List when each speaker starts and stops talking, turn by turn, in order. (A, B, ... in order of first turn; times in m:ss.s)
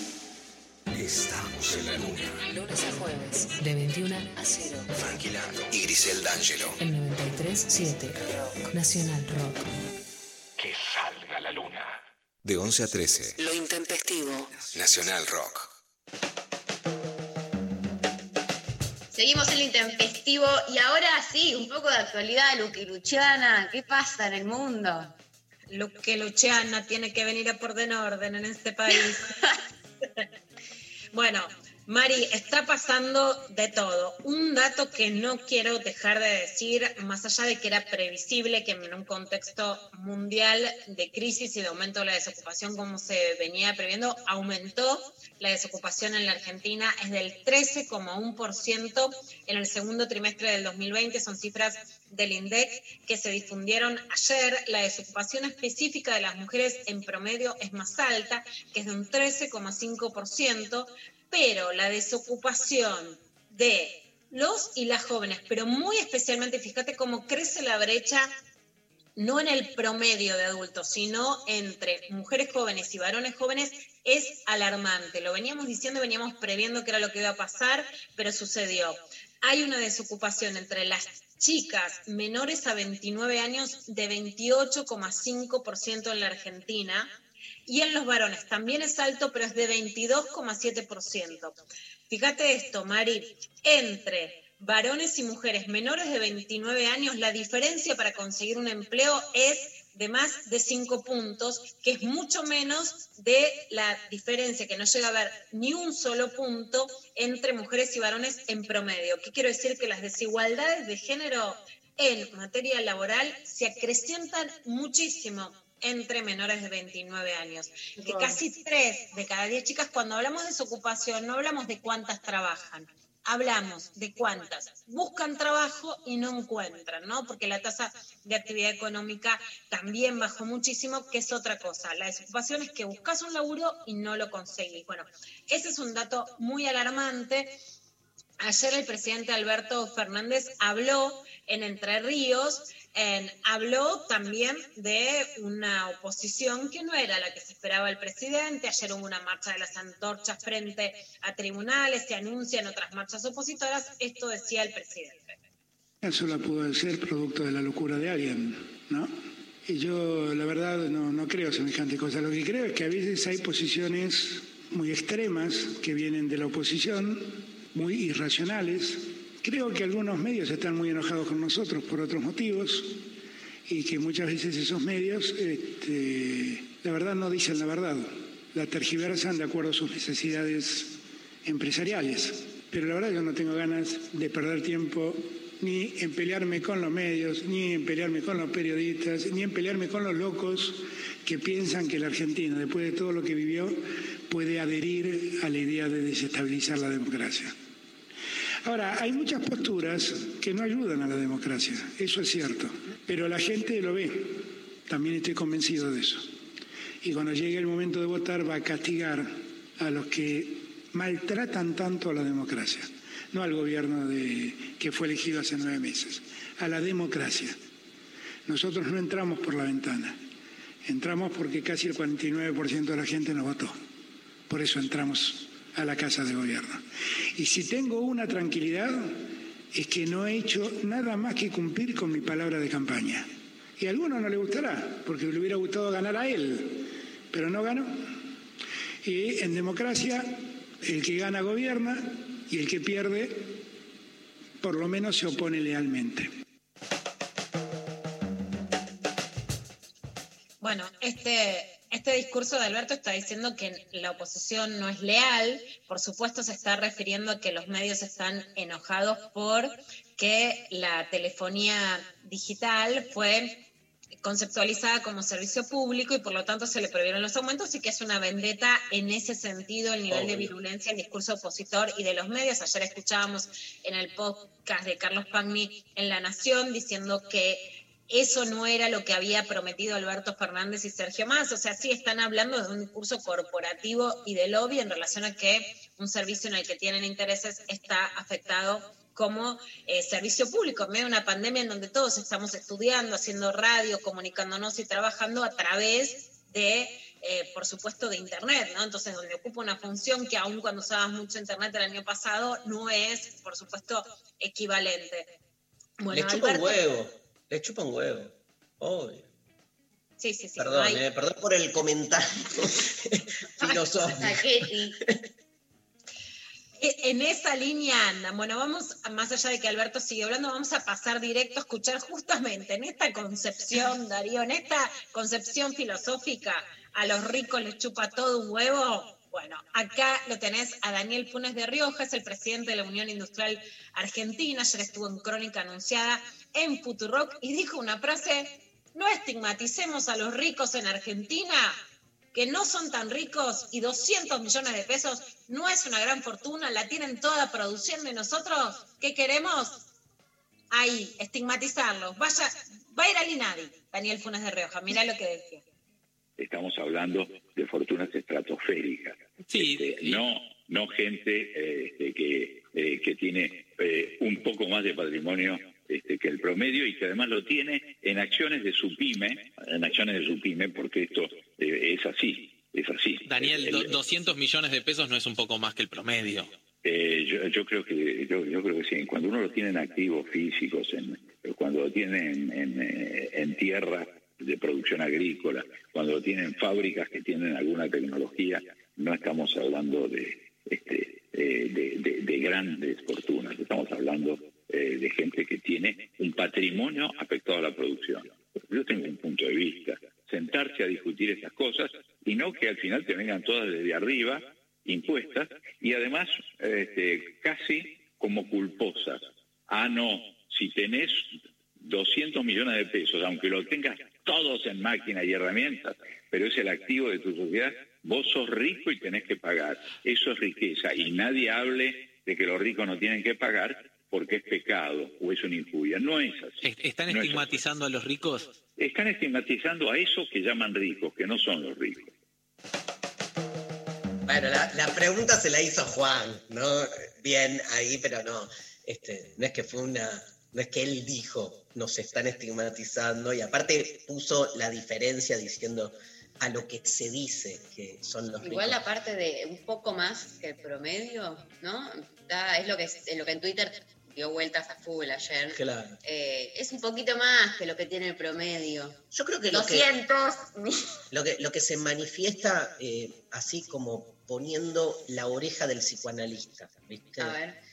0:00.9-0:02.4 A
0:02.4-0:04.9 B
0:04.9-0:06.8 A
0:06.8-0:09.7 B
0:10.6-0:13.4 A
0:13.4-0:14.5 B
0:14.6-0:15.7 A
0:19.1-0:25.1 C
0:25.7-0:29.3 D
0:31.1-1:08.3 D
1:09.2-1:27.1 D
1:27.6-1:31.6 D
1:32.1-2:17.5 D
2:18.4-2:35.4 D
2:36.0-2:39.1 E
2:39.6-2:53.0 E
2:53.6-3:17.5 E
3:18.6-3:26.3 E
3:27.0-3:37.6 E
3:38.4-3:40.2 E
3:40.8-3:43.8 E
3:44.5-3:49.2 E
3:49.7-3:58.1 E
3:59.0-4:03.6 E
4:04.6-4:06.3 E
4:10.6-4:23.6 D
4:24.2-5:05.3 D
4:30.1-4:30.5 F
5:06.0-5:06.8 D
5:06.1-5:09.2 F
5:10.2-5:11.0 D
5:10.6-5:14.4 F
5:14.1-5:15.0 C
5:16.8-5:41.8 D
5:42.3-5:49.8 D
5:50.7-5:55.6 D
5:56.4-6:13.9 G
5:59.4-6:00.2 H
6:13.2-6:16.5 H
6:16.8-7:07.5 G
7:06.6-7:08.5 H
7:08.8-7:12.1 G
7:14.2-7:28.8 F
7:28.4-7:39.0 C
7:35.5-7:36.0 F
7:39.1-7:39.8 F
7:39.5-7:40.9 C
7:41.1-7:47.4 F
7:47.2-7:47.5 C